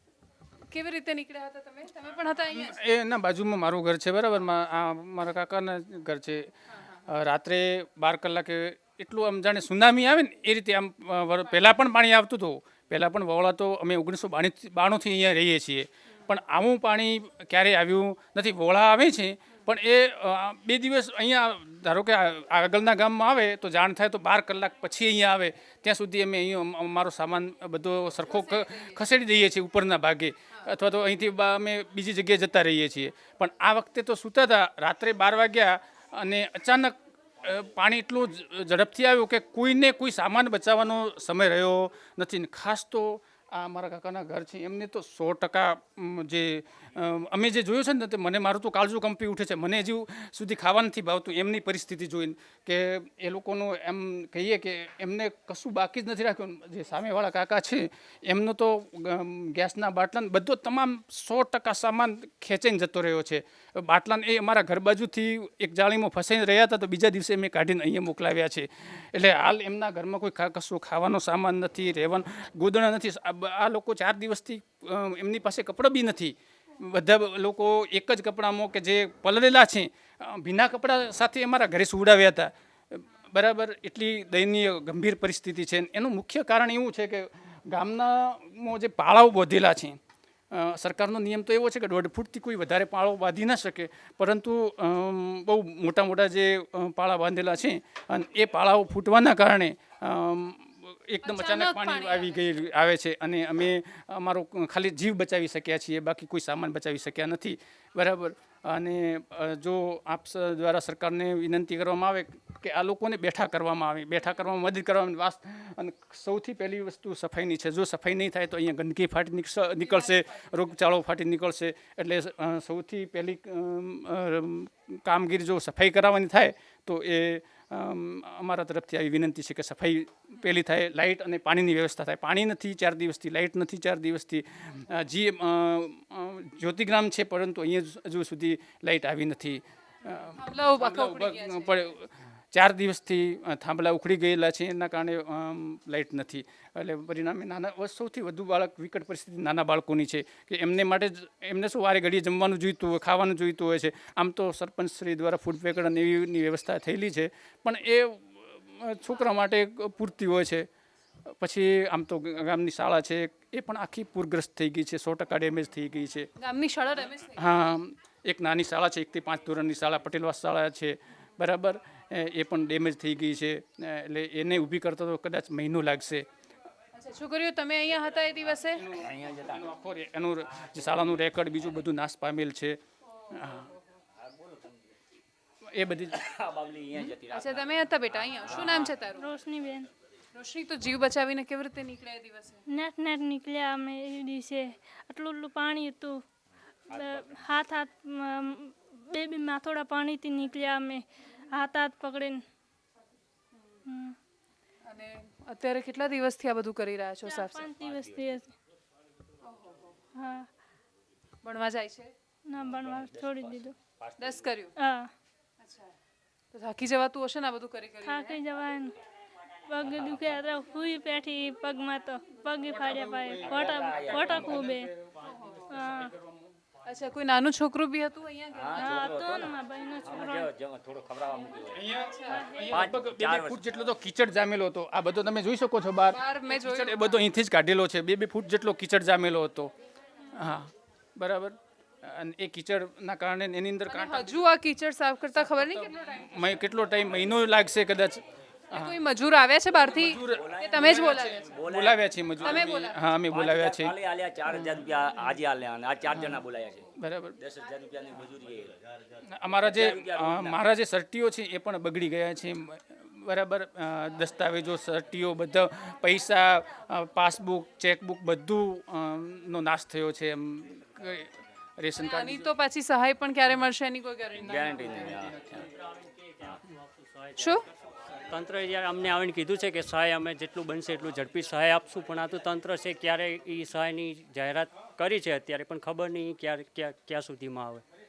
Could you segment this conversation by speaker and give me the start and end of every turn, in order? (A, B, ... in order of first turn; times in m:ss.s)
0:00.7-0:02.8 A
0:02.5-0:06.5 B
0:06.7-0:07.0 A
0:07.1-1:30.0 B
0:28.3-0:29.0 A
1:30.5-2:40.7 B
1:41.2-1:42.4 A
1:59.6-2:00.6 A
2:20.4-2:21.9 A
2:41.3-2:46.3 B
2:46.4-2:47.5 A
2:47.4-2:56.3 B
2:57.0-2:58.9 A
2:58.8-3:02.8 B
2:58.9-2:59.7 C
3:03.2-3:03.6 A
3:03.3-3:03.7 B
3:04.2-3:04.9 C
3:05.7-3:06.2 B
3:06.1-3:08.9 C
3:07.0-3:09.3 A
3:09.1-3:09.9 D
3:10.4-3:12.6 A
3:12.7-3:16.2 D
3:16.9-3:17.4 C
3:16.9-3:22.4 D
3:23.9-3:24.2 D
3:24.9-3:27.6 A
3:27.2-3:28.5 D
3:27.8-3:28.3 C
3:29.4-3:30.0 A
3:30.2-3:30.5 D
3:31.4-3:32.1 A
3:32.5-3:33.8 D
3:32.6-3:34.5 C
3:34.2-3:34.7 A
3:34.8-3:35.1 D
3:35.6-3:35.9 A
3:36.5-3:38.4 A
3:38.0-3:39.0 D
3:39.7-3:44.9 D
3:39.8-3:40.4 C
3:42.7-3:46.4 B
3:43.4-3:44.7 C
3:45.2-3:45.6 A
3:45.7-3:46.1 D
3:46.8-3:49.0 A
3:48.5-3:51.9 C
3:48.7-3:50.5 D
3:51.7-3:59.7 B
3:52.0-3:52.4 A
3:52.3-3:52.8 D
3:52.7-3:53.6 C
3:56.1-3:57.2 A
4:00.3-4:04.4 B
4:03.9-4:06.5 A
4:05.3-4:09.0 B
4:08.7-4:11.6 A
4:09.9-4:13.9 B
4:10.3-4:16.9 C
4:12.4-4:13.0 A
4:14.5-4:14.8 B
4:16.1-4:16.4 B
4:17.0-4:17.4 B
4:17.4-4:18.8 C
4:19.3-4:32.5 B
4:19.6-4:20.6 C
4:32.0-4:35.2 A
4:34.4-4:35.6 C
4:35.0-4:35.7 B
4:36.0-4:37.6 E
4:37.4-4:37.6 A
4:38.3-4:47.8 E